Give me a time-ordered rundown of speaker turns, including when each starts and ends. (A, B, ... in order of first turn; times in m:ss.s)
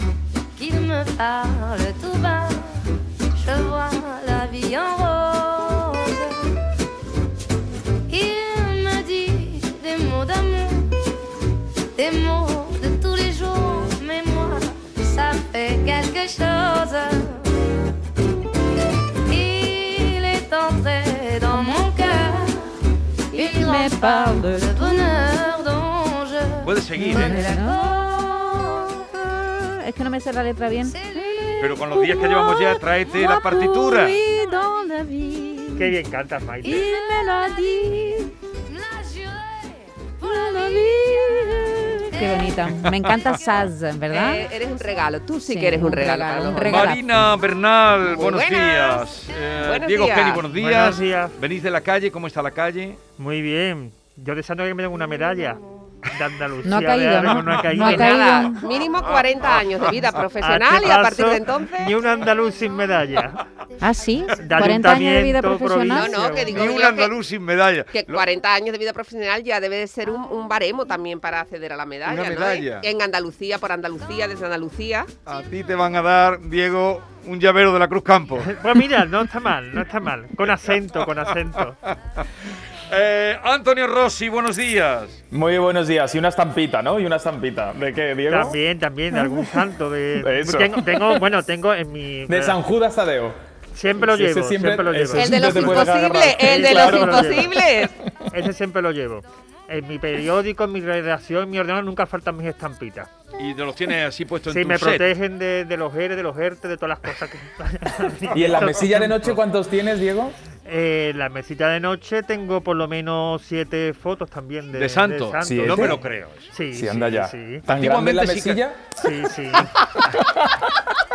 0:00.6-0:02.7 A
0:03.4-0:06.4 A
0:08.1-0:10.9 A
0:12.0-0:17.4 A
0:19.3-0:22.7 A
0:21.5-0:22.0 B
0:23.3-0:29.1 A
0:23.3-0:25.1 B
0:26.6-0:27.4 C
0:27.0-0:36.0 B
0:30.8-0:32.0 A
0:31.6-0:34.2 C
0:34.1-0:34.9 A
0:35.8-0:36.8 D
0:36.6-0:38.3 B
0:36.6-0:43.4 A
0:40.2-0:44.4 B
0:42.9-0:43.2 C
0:44.1-0:46.9 E
0:45.5-0:47.2 B
0:46.6-0:53.0 C
0:48.1-0:49.0 E
0:49.6-0:50.5 E
0:50.5-0:51.4 D
0:53.2-0:58.3 D
0:55.2-0:55.6 A
0:56.6-0:58.6 B
0:57.3-0:57.9 C
0:57.8-1:02.0 E
0:58.9-1:00.2 C
1:00.3-1:03.4 D
1:03.8-1:06.2 B
1:04.1-1:04.3 A
1:04.4-1:06.6 D
1:05.9-1:07.1 E
1:06.5-1:08.3 C
1:07.9-1:15.1 E
1:12.0-1:12.9 C
1:15.3-1:18.6 C
1:18.4-1:21.8 D
1:21.9-1:22.3 C
1:22.9-1:25.2 C
1:25.3-1:28.6 F
1:28.3-1:32.6 D
1:29.1-1:29.6 F
1:30.2-1:31.3 F
1:32.3-1:33.4 F
1:33.7-1:37.5 D
1:34.0-1:37.9 F
1:35.1-1:37.9 E
1:38.3-1:43.1 D
1:43.4-1:45.1 C
1:44.5-1:49.4 D
1:48.3-1:50.4 F
1:50.7-1:56.0 D
1:54.7-1:56.5 C
1:55.4-1:56.0 F
1:56.5-1:57.6 D
1:56.7-1:58.9 F
1:57.7-1:58.6 C
1:59.0-1:59.8 D
1:59.8-2:01.0 F